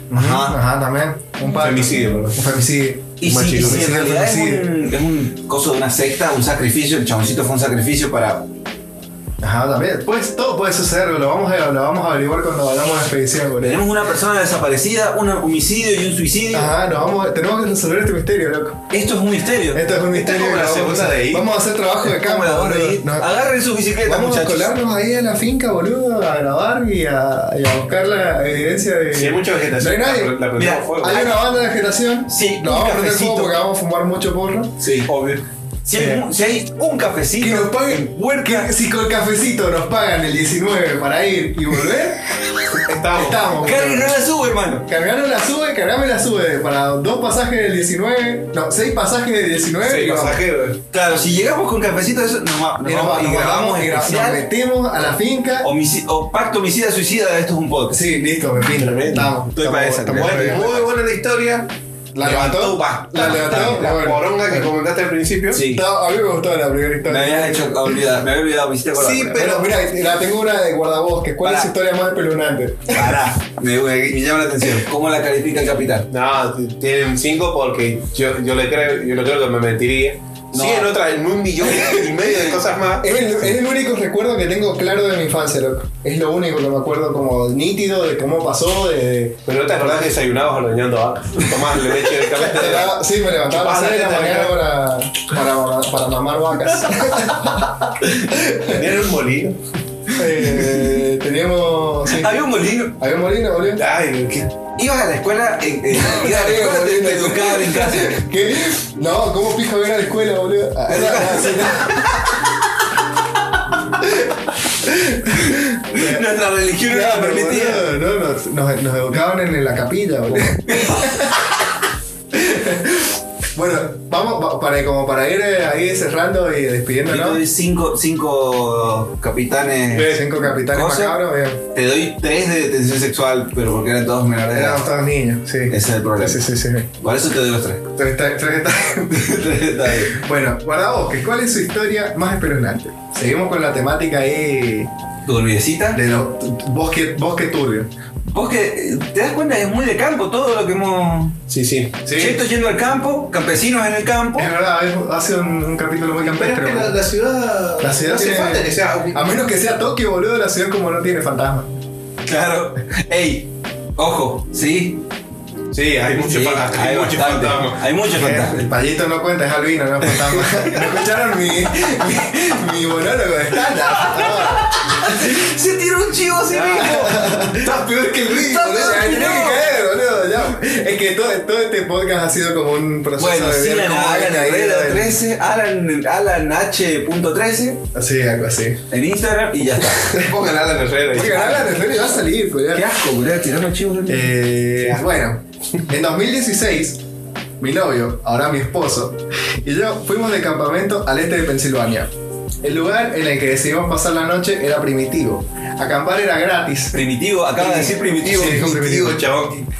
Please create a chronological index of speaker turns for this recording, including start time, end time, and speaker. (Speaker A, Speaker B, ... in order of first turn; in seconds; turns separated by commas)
Speaker A: 0.1-4.7, Speaker B: 0.1-0.6, Speaker C: 1.5-2.5, Speaker B: 3.2-8.5, Speaker C: 3.2-3.9, Speaker A: 9.4-13.8, Speaker B: 13.6-16.7, Speaker A: 16.5-18.8, Speaker B: 18.9-19.8, Speaker A: 19.7-23.4, Speaker C: 20.1-21.5, Speaker B: 22.0-24.7, Speaker A: 24.0-30.4, Speaker C: 29.1-31.3, Speaker B: 30.6-31.4, Speaker A: 31.0-34.7, Speaker B: 32.3-33.6, Speaker B: 34.8-35.1, Speaker C: 35.0-35.4, Speaker B: 35.9-38.7, Speaker A: 35.9-36.3, Speaker A: 37.4-42.3, Speaker C: 42.9-43.6, Speaker A: 43.1-44.1, Speaker B: 43.6-44.9, Speaker A: 44.9-50.4, Speaker C: 49.8-50.8, Speaker B: 50.9-54.4, Speaker A: 52.8-55.7, Speaker B: 55.6-58.0, Speaker A: 57.9-60.6, Speaker C: 58.8-59.4, Speaker B: 59.5-60.9, Speaker C: 60.1-61.7, Speaker A: 62.1-64.7, Speaker C: 62.2-65.6, Speaker B: 62.2-63.9, Speaker B: 65.5-65.8, Speaker A: 65.7-68.0, Speaker B: 67.1-69.5, Speaker C: 69.0-69.7, Speaker A: 69.3-73.3, Speaker B: 71.4-71.7, Speaker B: 72.9-76.1, Speaker C: 76.1-83.1, Speaker B: 80.5-80.9, Speaker A: 81.7-82.1, Speaker A: 83.0-89.4, Speaker C: 89.5-93.0, Speaker A: 92.3-98.9, Speaker C: 93.5-94.6, Speaker C: 98.7-99.6, Speaker A: 100.2-102.4, Speaker B: 100.2-101.0, Speaker B: 102.1-103.0, Speaker A: 103.0-103.8, Speaker C: 103.8-104.5, Speaker B: 104.8-108.2, Speaker A: 105.9-112.2, Speaker B: 110.9-112.3, Speaker A: 114.0-116.2, Speaker B: 115.5-117.9, Speaker A: 116.8-121.5, Speaker B: 120.7-121.2, Speaker A: 122.3-127.4, Speaker B: 127.1-130.2, Speaker C: 129.9-130.4, Speaker A: 130.1-131.6, Speaker B: 130.7-131.2, Speaker B: 131.7-134.8, Speaker A: 134.5-136.9, Speaker B: 135.7-136.5, Speaker B: 137.0-137.9, Speaker A: 138.0-144.9, Speaker B: 139.1-140.2, Speaker B: 145.2-146.0, Speaker A: 145.9-147.9, Speaker B: 148.3-151.4, Speaker C: 151.5-152.1, Speaker A: 152.1-152.4, Speaker B: 152.1-154.5, Speaker A: 154.4-157.0, Speaker C: 156.2-159.2, Speaker A: 157.8-161.7, Speaker B: 162.2-165.0, Speaker C: 165.7-167.9, Speaker B: 166.2-168.7, Speaker A: 168.2-175.4, Speaker B: 170.1-170.8, Speaker B: 173.9-177.2, Speaker C: 176.5-179.4, Speaker A: 176.7-177.8, Speaker B: 178.3-179.6, Speaker A: 178.4-185.2, Speaker B: 183.2-187.8, Speaker A: 187.9-188.8, Speaker B: 188.9-190.2, Speaker C: 189.9-191.8, Speaker A: 191.1-192.8, Speaker B: 192.7-194.3, Speaker A: 194.1-197.0, Speaker A: 197.6-202.1, Speaker A: 202.6-207.0, Speaker B: 206.9-208.7, Speaker C: 207.6-209.7, Speaker A: 208.2-209.3